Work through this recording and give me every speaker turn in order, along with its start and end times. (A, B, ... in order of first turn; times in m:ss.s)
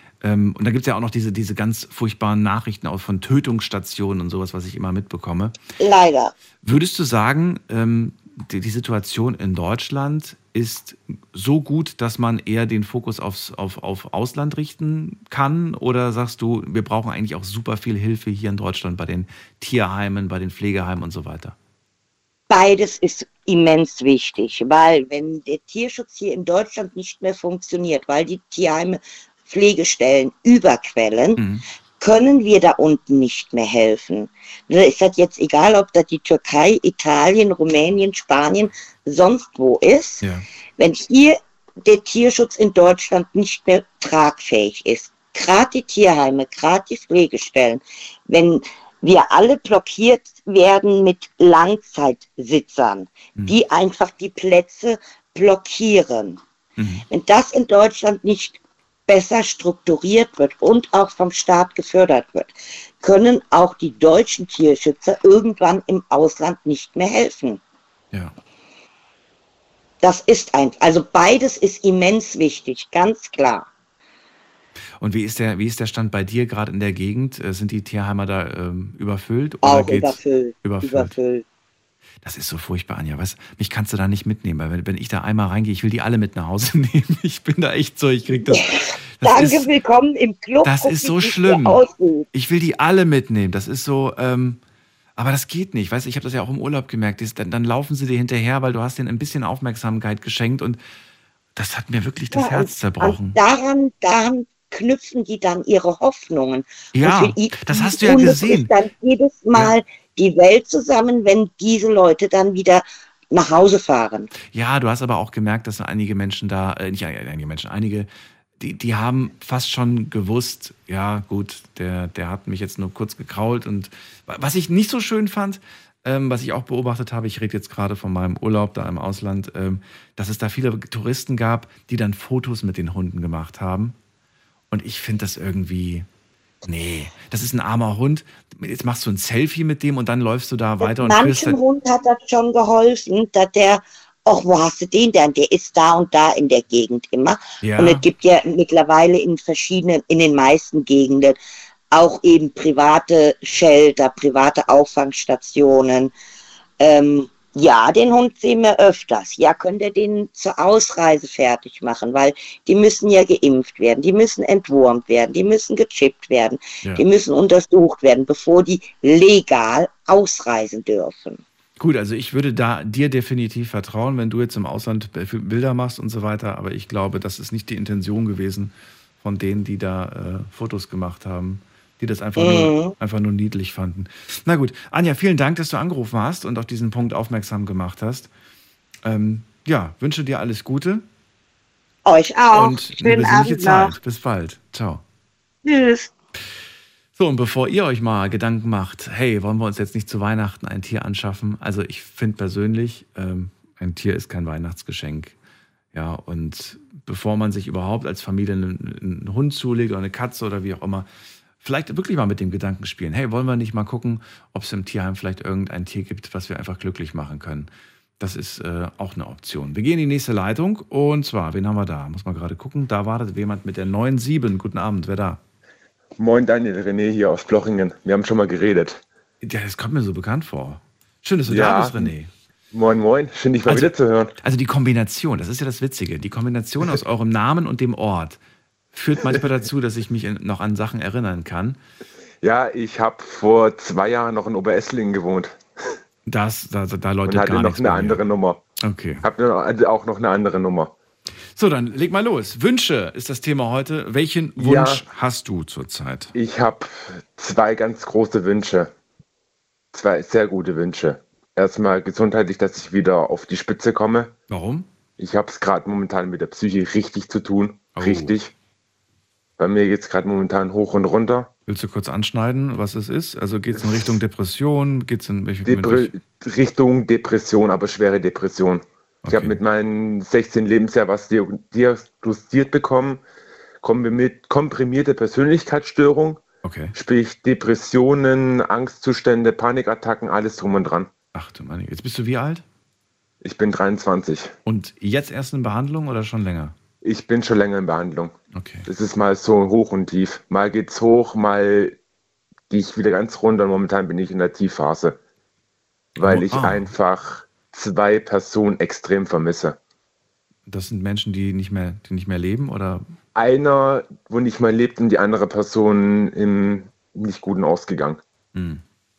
0:00.2-0:05.6 A
0:05.8-0:06.3 B
0:06.6-0:21.6 A
0:22.5-0:31.4 B
0:31.4-0:31.6 A
0:32.0-0:40.2 B
0:40.8-0:56.4 B
0:56.8-0:57.0 A
0:57.1-1:07.6 B
1:10.0-1:13.7 B
1:15.0-1:21.1 A
1:19.6-1:21.4 B
1:22.2-1:29.7 A
1:28.4-1:32.3 B
1:30.6-1:31.8 A
1:32.3-1:34.6 A
1:35.2-1:40.8 A
1:41.5-1:43.4 A
1:42.3-1:54.3 B
1:46.9-1:48.7 A
1:54.4-2:14.0 A
2:14.7-2:16.1 A
2:16.6-2:21.6 A
2:20.8-2:31.4 B
2:27.6-2:28.0 A
2:31.9-2:36.1 B
2:36.8-2:51.4 B
2:51.8-3:08.3 A
3:02.4-3:02.9 B
3:09.0-3:11.0 A
3:12.0-3:13.9 B
3:12.5-3:15.0 A
3:15.6-3:16.1 B
3:17.2-3:25.4 A
3:25.9-3:31.1 A
3:31.6-3:45.4 A
3:46.2-3:49.0 C
3:49.4-3:52.3 A
3:51.5-3:52.1 C
3:52.7-3:54.3 C
3:53.6-3:58.4 A
3:58.9-4:01.8 A
4:02.4-4:05.6 C
4:06.2-4:08.2 A
4:07.3-4:08.6 C
4:08.8-4:09.2 A
4:09.2-4:10.9 C
4:11.5-4:16.3 A
4:14.6-4:15.0 C
4:16.3-4:18.9 C
4:19.9-4:24.3 C
4:24.5-4:24.9 A
4:25.2-4:28.5 C
4:27.9-4:28.4 A
4:29.6-4:31.5 C
4:31.7-4:36.1 A
4:33.8-4:34.0 C
4:35.6-4:43.2 C
4:39.2-4:39.6 A
4:43.8-4:46.4 C
4:46.6-4:47.0 A
4:46.9-4:51.1 C
4:51.3-4:52.6 A
4:53.4-4:54.5 C
4:54.6-4:56.7 A
4:57.0-4:58.4 C
4:58.5-4:58.9 A
4:58.9-5:02.0 C
5:02.7-5:05.2 C
5:06.2-5:06.9 A
5:06.2-5:09.8 C
5:10.7-5:13.0 A
5:13.3-5:18.2 C
5:18.5-5:18.8 A